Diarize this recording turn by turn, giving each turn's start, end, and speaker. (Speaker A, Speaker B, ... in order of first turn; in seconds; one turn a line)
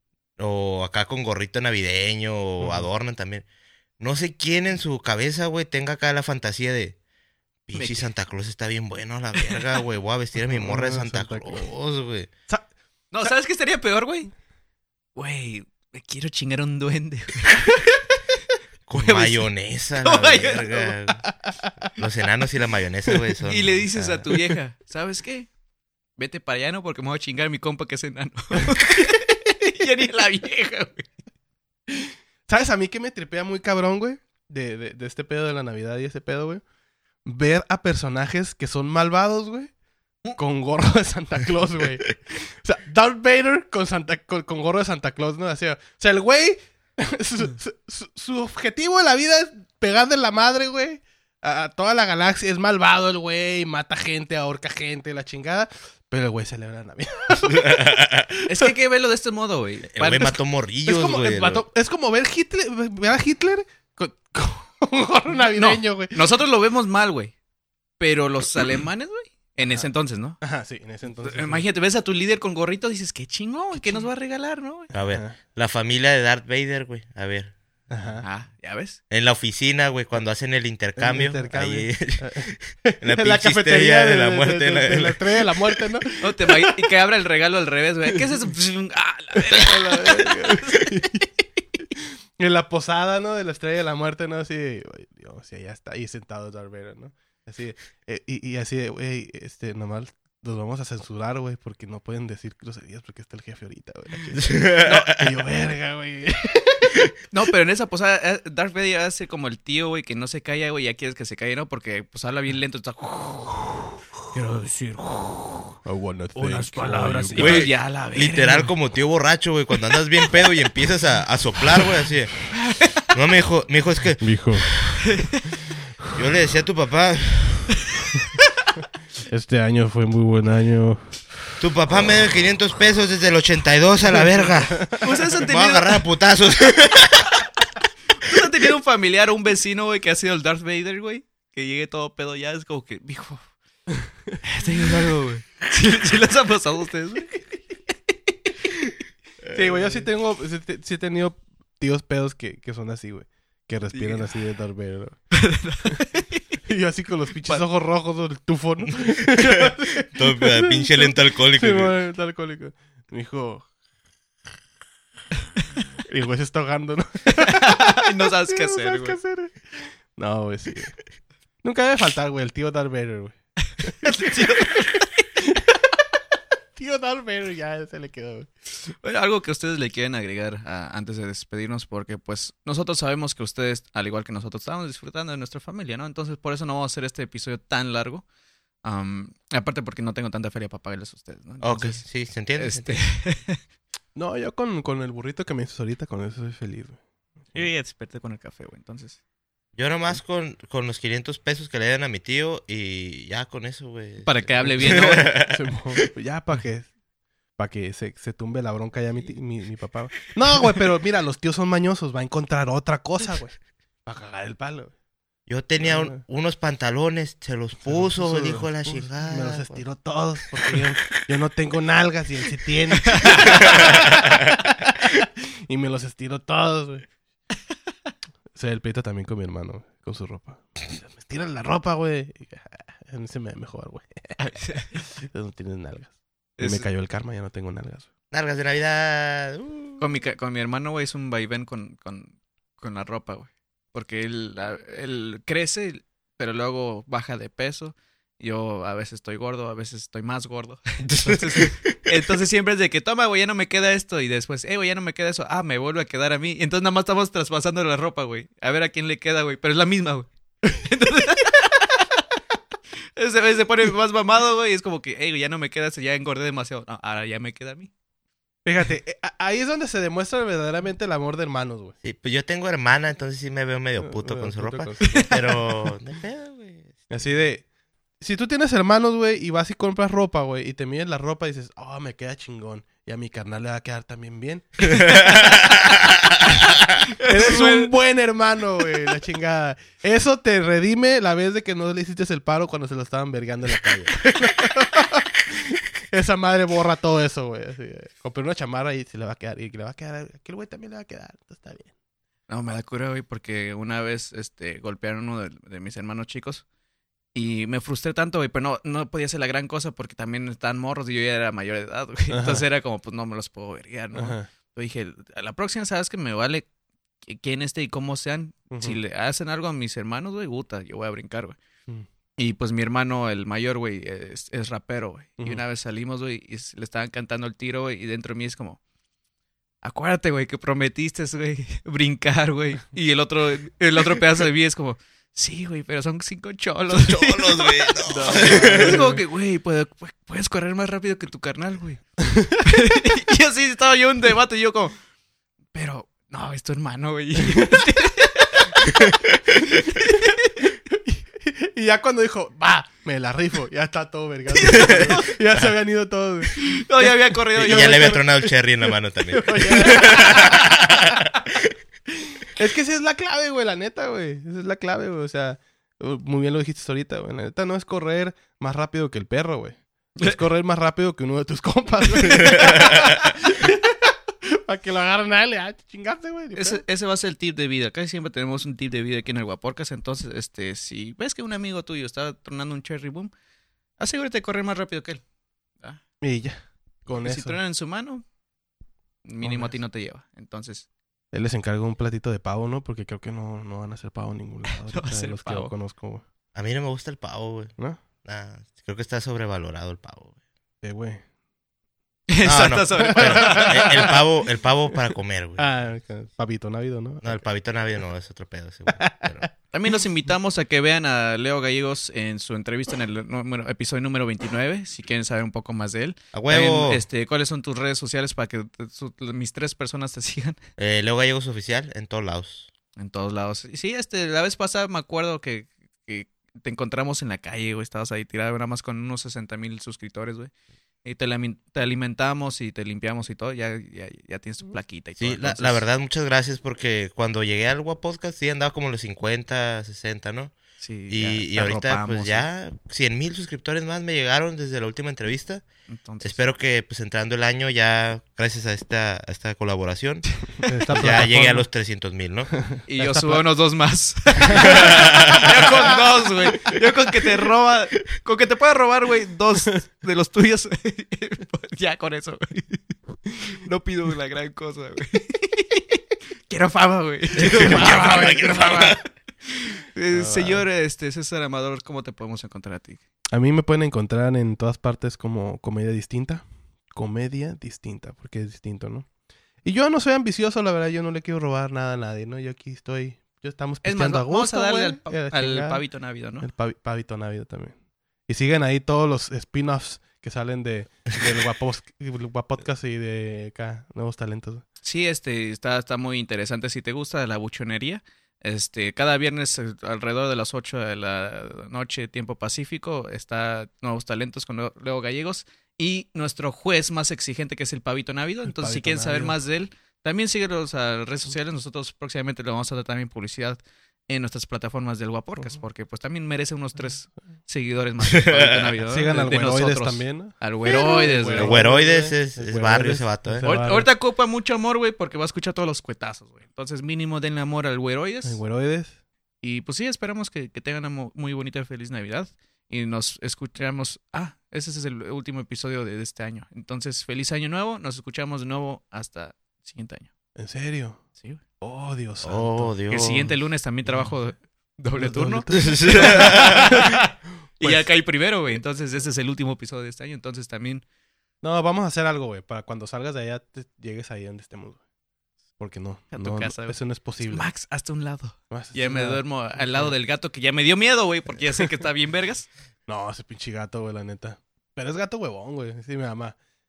Speaker A: 0.4-3.5
Speaker A: 4.0-7.0
Speaker A: 7.7-12.3
Speaker B: 7.7-8.1
Speaker B: 9.4-9.7
Speaker C: 10.5-11.7
Speaker B: 13.1-14.3
Speaker B: 15.2-18.4
Speaker A: 18.9-21.3
Speaker B: 19.0-19.4
Speaker B: 20.0-21.0
Speaker A: 22.0-24.3
Speaker B: 23.4-25.5
Speaker B: 26.2-31.1
Speaker C: 31.9-36.6
Speaker C: 37.2-39.7
Speaker C: 40.4-58.7
Speaker A: 57.5-58.3
Speaker B: 58.5-60.4
Speaker A: 59.9-61.7
Speaker C: 60.9-66.2
Speaker B: 65.5-67.3
Speaker B: 68.0-70.4
Speaker C: 69.6-69.9
Speaker C: 70.4-71.6
Speaker B: 71.2-74.9
Speaker A: 74.9-77.5
Speaker C: 75.1-75.3
Speaker C: 77.9-78.2
Speaker B: 78.2-79.0
Speaker A: 79.1-85.5
Speaker C: 81.0-86.8
Speaker B: 86.2-91.0
Speaker C: 89.4-91.2
Speaker C: 92.0-107.0
Speaker A: 104.5-105.1
Speaker B: 104.8-105.1
Speaker B: 107.3-115.8
Speaker C: 115.8-117.7
Speaker B: 116.3-118.7
Speaker A: 117.4-122.5
Speaker B: 122.5-123.1
Speaker A: 123.1-125.0
Speaker C: 124.2-124.8
Speaker B: 125.1-125.4
Speaker A: 126.1-127.8
Speaker C: 129.3-131.1
Speaker A: 131.6-137.3
Speaker B: 134.9-136.1
Speaker B: 138.2-143.5
Speaker B: 144.4-147.4
Speaker C: 149.5-155.2
Speaker B: 153.9-154.3
Speaker B: 155.3-156.4
Speaker C: 156.7-163.7
Speaker A: 160.1-162.0
Speaker C: 166.1-171.0
Speaker B: 167.3-169.2
Speaker C: 171.6-174.3
Speaker B: 174.0-175.3
Speaker C: 176.8-178.5
Speaker B: 178.9-188.2
Speaker B: 188.8-193.6
Speaker A: 191.6-193.0
Speaker C: 194.2-197.7
Speaker B: 197.5-199.2
Speaker A: 199.8-205.6
Speaker B: 204.2-205.4
Speaker C: 204.9-206.9
Speaker C: 207.6-214.9
Speaker A: 215.5-219.8
Speaker C: 215.8-216.2
Speaker C: 217.8-224.0
Speaker C: 225.7-227.1
Speaker C: 228.6-238.1
Speaker B: 234.4-235.0
Speaker B: 236.6-236.9
Speaker A: 238.3-240.1
Speaker B: 240.0-262.2
Speaker B: 263.2-267.9
Speaker C: 268.6-272.0
Speaker A: 272.0-277.1
Speaker C: 274.0-275.3
Speaker B: 275.2-275.5
Speaker C: 277.1-277.7
Speaker C: 278.2-285.5
Speaker A: 285.1-285.6
Speaker B: 287.2-287.9
Speaker C: 287.2-301.9
Speaker B: 302.5-306.6
Speaker B: 307.3-316.7
Speaker C: 312.3-312.6
Speaker C: 314.1-314.5
Speaker B: 317.2-321.6
Speaker C: 318.7-319.0
Speaker B: 322.4-328.8
Speaker B: 329.8-344.9
Speaker A: 336.9-339.0
Speaker C: 338.1-339.2
Speaker B: 345.7-349.0
Speaker B: 349.9-350.6
Speaker C: 351.1-358.2
Speaker B: 354.5-355.4
Speaker B: 356.5-358.5
Speaker A: 357.6-361.3
Speaker B: 359.4-360.4
Speaker C: 359.4-361.2
Speaker C: 362.5-376.8
Speaker B: 372.6-373.0
Speaker B: 376.6-383.3
Speaker B: 384.0-385.2
Speaker C: 386.2-387.6
Speaker B: 387.1-388.2
Speaker B: 389.2-390.9
Speaker C: 389.4-389.8
Speaker C: 391.3-396.2
Speaker B: 394.8-395.7
Speaker A: 396.6-400.3
Speaker C: 400.8-401.2
Speaker B: 402.3-404.1
Speaker A: 402.4-405.7
Speaker C: 403.0-404.1
Speaker C: 405.6-407.4
Speaker A: 407.2-409.5
Speaker C: 409.0-409.5
Speaker B: 409.7-420.6
Speaker A: 416.3-417.0
Speaker A: 420.8-422.7
Speaker B: 422.9-430.5
Speaker B: 431.0-435.8
Speaker A: 435.2-440.6
Speaker B: 440.8-442.5
Speaker A: 441.1-445.7
Speaker B: 445.9-446.4
Speaker A: 446.2-452.5
Speaker C: 450.6-451.7
Speaker C: 452.7-453.4
Speaker B: 452.9-462.9
Speaker C: 454.4-455.0
Speaker A: 454.6-455.4
Speaker B: 463.5-473.0
Speaker A: 467.4-469.0
Speaker C: 467.6-468.9
Speaker C: 470.1-470.6
Speaker C: 473.3-479.1
Speaker C: 479.6-485.8
Speaker B: 483.8-486.5
Speaker C: 486.4-494.6
Speaker B: 494.8-521.6
Speaker C: 508.4-509.4
Speaker A: 518.2-518.7
Speaker C: 518.9-523.9
Speaker A: 521.3-523.5
Speaker B: 523.4-528.4
Speaker C: 528.2-529.0
Speaker B: 529.4-540.1
Speaker C: 540.4-541.0
Speaker B: 541.2-541.4
Speaker C: 541.6-542.7
Speaker A: 542.2-543.3
Speaker B: 542.9-547.0
Speaker C: 545.0-547.0
Speaker A: 545.5-546.8
Speaker B: 547.6-550.8
Speaker C: 551.4-554.8
Speaker C: 555.6-557.5
Speaker B: 556.1-562.5
Speaker C: 558.5-559.9
Speaker C: 562.9-566.4